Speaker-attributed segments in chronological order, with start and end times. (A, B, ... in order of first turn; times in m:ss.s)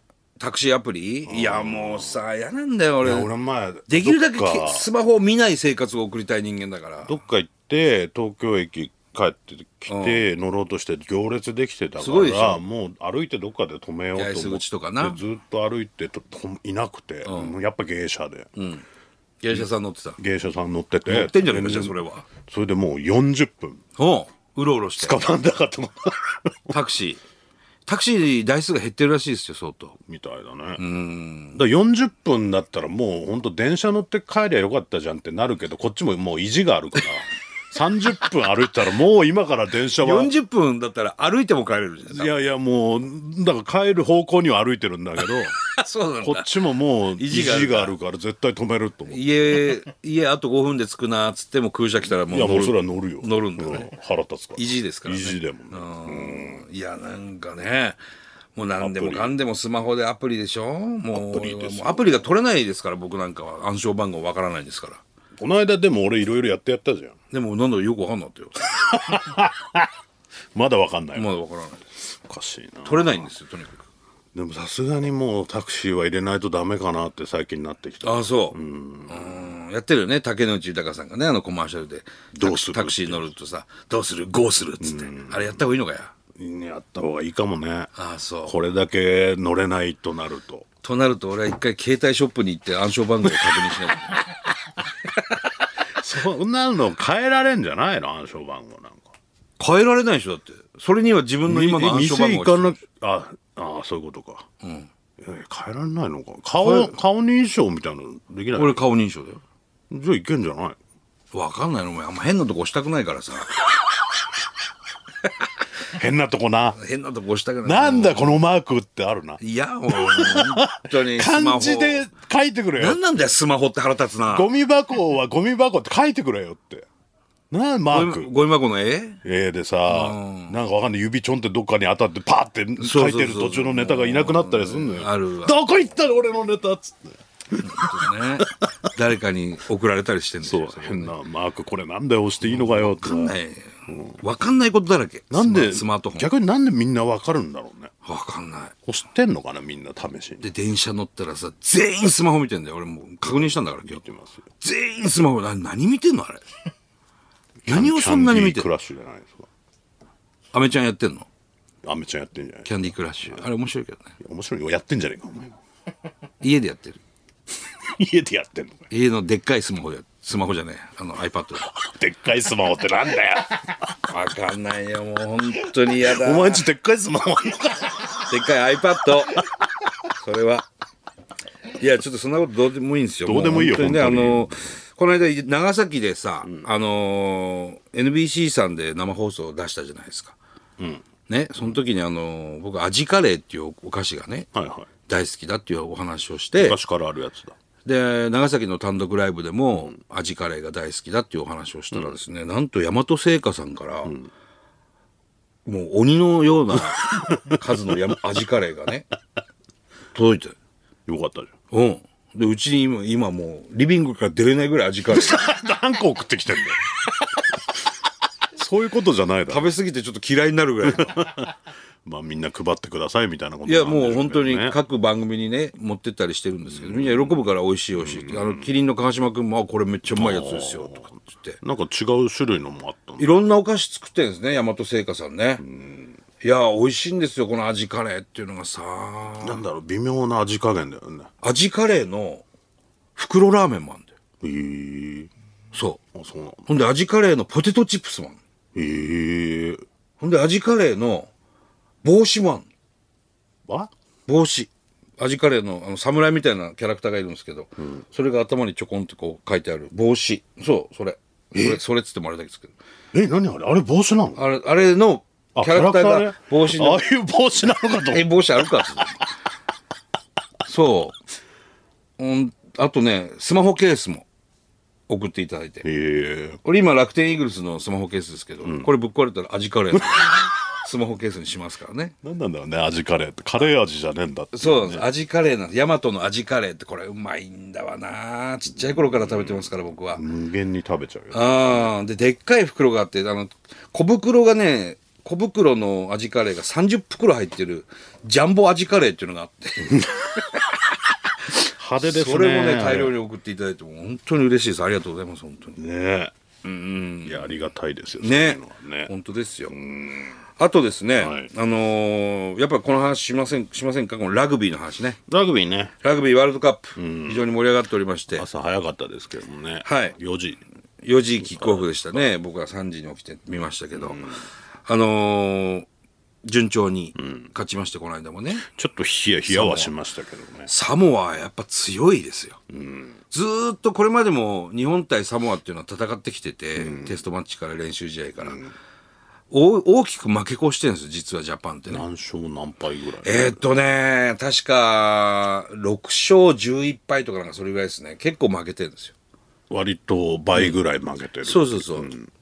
0:00.4-0:03.3 A
0:01.3-0:02.2 B
0:03.0-0:04.9 B
0:03.9-0:07.2 A
0:07.1-0:18.5 B
0:09.9-0:10.2 A
0:12.0-0:12.6 A
0:14.2-0:15.2 A
0:17.2-0:17.5 A
0:18.6-0:18.8 A
0:19.4-0:20.2 A
0:20.2-0:23.8 B
0:21.1-0:22.3 A
0:24.0-0:25.2 A
0:25.0-0:26.7 B
0:26.7-0:27.2 A
0:27.9-0:30.0 A
0:30.1-0:30.8 B
0:30.8-0:31.6 A
0:31.6-0:40.3 B
0:40.0-0:42.3 A
0:42.1-0:45.7 B
0:45.7-0:46.5 A
0:46.2-0:49.5 B
0:47.2-0:47.9 A
0:49.1-0:53.9 A
0:52.3-0:56.6 B
0:54.6-0:58.0 A
0:58.6-1:05.0 A
0:58.8-0:59.4 B
1:01.1-1:02.3 B
1:05.4-1:07.2 B
1:07.3-1:08.8 A
1:08.8-1:09.9 B
1:10.5-1:11.3 B
1:11.1-1:11.9 A
1:12.1-1:13.3 B
1:12.8-1:13.9 A
1:14.3-1:19.5 B
1:18.0-1:26.1 A
1:22.3-1:23.3 B
1:24.8-1:25.6 B
1:26.4-1:27.9 B
1:28.0-1:28.6 A
1:28.5-1:30.7 B
1:30.8-1:34.2 A
1:36.0-1:39.1 B
1:39.6-1:42.8 A
1:41.5-1:44.5 B
1:44.6-1:44.9 A
1:45.2-1:48.8 B
1:46.6-1:47.0 A
1:48.6-1:49.4 A
1:49.9-1:50.8 B
1:51.3-1:53.5 A
1:55.9-1:56.8 B
1:56.8-1:58.4 A
1:57.6-2:03.0 B
1:59.4-2:02.1 A
2:02.8-2:04.5 A
2:04.3-2:06.9 B
2:07.5-2:08.3 B
2:07.9-2:09.2 A
2:09.2-2:18.4 B
2:09.9-2:10.6 A
2:12.8-2:15.6 A
2:17.6-2:21.1 A
2:20.4-2:23.4 B
2:22.4-2:26.3 A
2:23.9-2:24.2 B
2:25.3-2:27.9 B
2:28.0-2:28.8 A
2:28.9-2:30.5 B
2:30.4-2:34.0 A
2:33.2-2:34.4 B
2:34.6-2:36.4 A
2:37.6-2:39.5 B
2:37.7-2:38.7 A
2:40.5-2:41.3 A
2:41.8-2:43.4 B
2:42.7-2:44.2 A
2:44.2-2:45.6 B
2:46.4-2:47.0 A
2:47.8-2:48.9 B
2:48.9-2:51.7 A
2:51.6-2:54.0 B
2:54.1-2:56.7 A
2:56.0-2:58.4 B
2:58.3-2:59.4 A
3:00.1-3:00.7 A
3:01.8-3:10.4 A
3:03.2-3:04.6 B
3:10.8-3:11.0 B
3:11.3-3:14.5 A
3:14.5-3:14.9 B
3:15.1-3:16.8 A
3:16.6-3:17.6 B
3:17.8-3:24.2 A
3:25.7-3:29.1 A
3:27.1-3:27.6 B
3:30.1-3:30.6 A
3:31.1-3:31.5 B
3:31.7-3:35.4 A
3:35.1-3:36.9 B
3:38.6-3:39.7 B
3:39.5-3:41.2 A
3:40.8-3:44.8 B
3:43.7-3:51.6 A
3:46.7-3:47.4 B
3:48.0-3:48.7 B
3:50.1-3:53.3 B
3:53.2-3:55.6 A
3:55.6-3:56.2 B
3:56.4-3:59.6 A
3:59.4-4:01.3 B
4:01.4-4:02.4 A
4:03.2-4:04.1 A
4:04.4-4:05.3 B
4:05.7-4:06.0 A
4:06.1-4:06.7 B
4:06.7-4:08.4 A
4:08.8-4:09.8 B
4:10.2-4:11.3 A
4:12.0-4:12.7 A
4:14.3-4:22.7 A
4:21.5-4:21.8 B
4:23.1-4:24.4 B
4:24.4-4:27.0 A
4:25.6-4:28.9 B
4:28.1-4:29.2 A
4:30.7-4:31.2 A
4:32.2-4:34.3 A
4:35.1-4:35.8 A
4:35.8-4:36.6 B
4:36.6-4:42.2 A
4:38.6-4:38.9 B
4:40.0-4:40.5 B
4:42.2-4:45.1 B
4:44.5-4:50.2 A
4:49.3-4:51.9 B
4:51.3-5:00.4 A
5:01.6-5:03.1 B
5:02.0-5:05.8 A
5:05.8-5:06.3 B
5:06.6-5:07.5 A
5:07.2-5:09.1 B
5:08.2-5:09.8 A
5:09.7-5:10.4 B
5:10.6-5:15.2 A
5:11.2-5:11.5 B
5:15.3-5:15.9 B
5:16.0-5:18.5 A
5:17.0-5:17.4 B
5:18.3-5:20.6 B
5:19.8-5:20.2 A
5:21.0-5:24.3 A
5:21.4-5:22.0 B
5:23.9-5:24.4 B
5:24.9-5:25.9 A
5:26.4-5:28.7 A
5:28.6-5:30.7 B
5:29.5-5:29.9 A
5:30.7-5:32.6 A
5:32.7-5:33.2 B
5:33.3-5:38.6 A
5:36.8-5:37.2 B
5:39.5-5:42.0 A
5:41.9-5:43.6 B
5:43.2-5:49.1 A
5:49.7-5:52.3 B
5:51.4-5:52.1 A